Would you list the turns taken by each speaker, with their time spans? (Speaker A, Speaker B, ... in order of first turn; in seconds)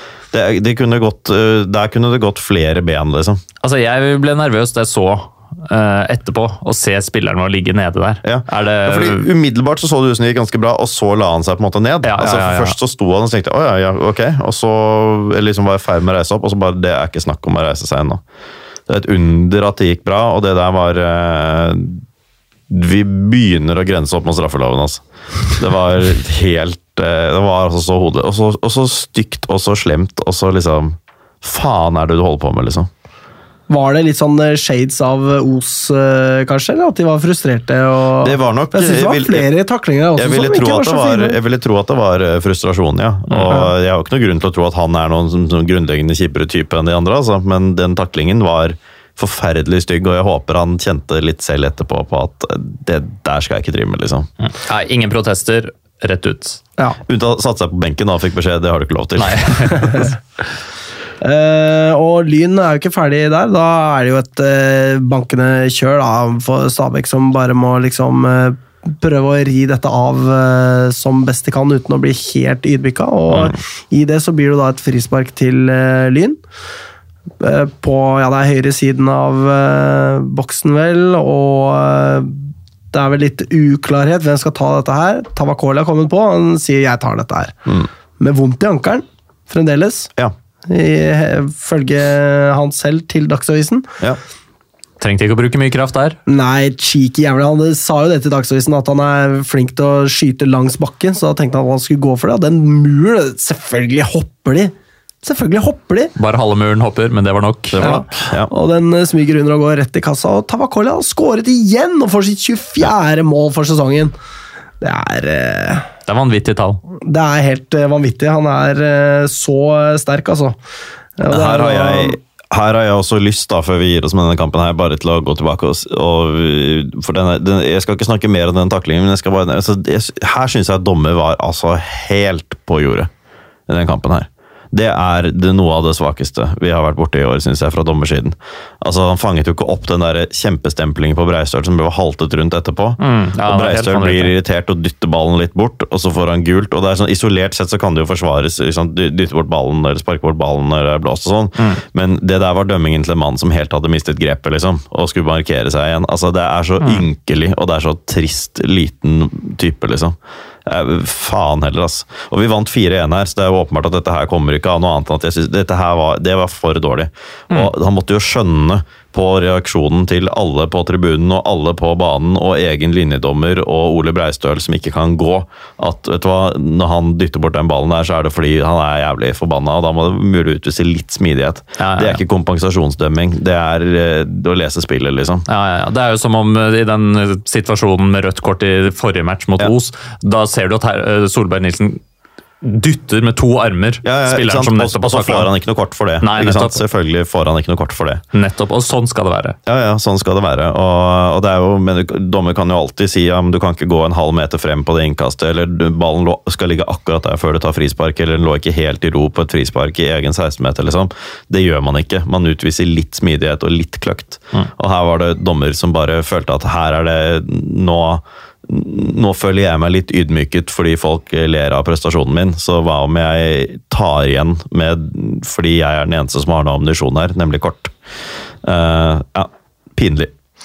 Speaker A: 0.3-3.4, 8.2-18.2, 18.9-22.0, 22.7-32.9, 38.2-39.5, 40.2-54.3, 57.1-60.0, 73.3-73.6, 107.7-108.5, 121.3-133.1, 133.7-185.4, 194.0-198.2, 199.7-227.9, 228.6-230.3
Speaker B: 3.6-9.3, 12.0-12.8, 54.4-56.6, 59.2-60.1, 95.0-96.2, 106.2-108.0, 116.1-116.8, 143.0-144.3, 156.8-157.1, 181.8-182.2, 185.5-192.0, 192.6-195.5, 196.2-196.8, 198.3-199.6
Speaker C: 33.7-41.4, 61.2-76.4, 77.4-87.5, 88.2-90.1, 90.7-93.9, 96.3-106.1, 107.8-114.1, 114.8-115.9, 117.0-120.6, 121.2-122.2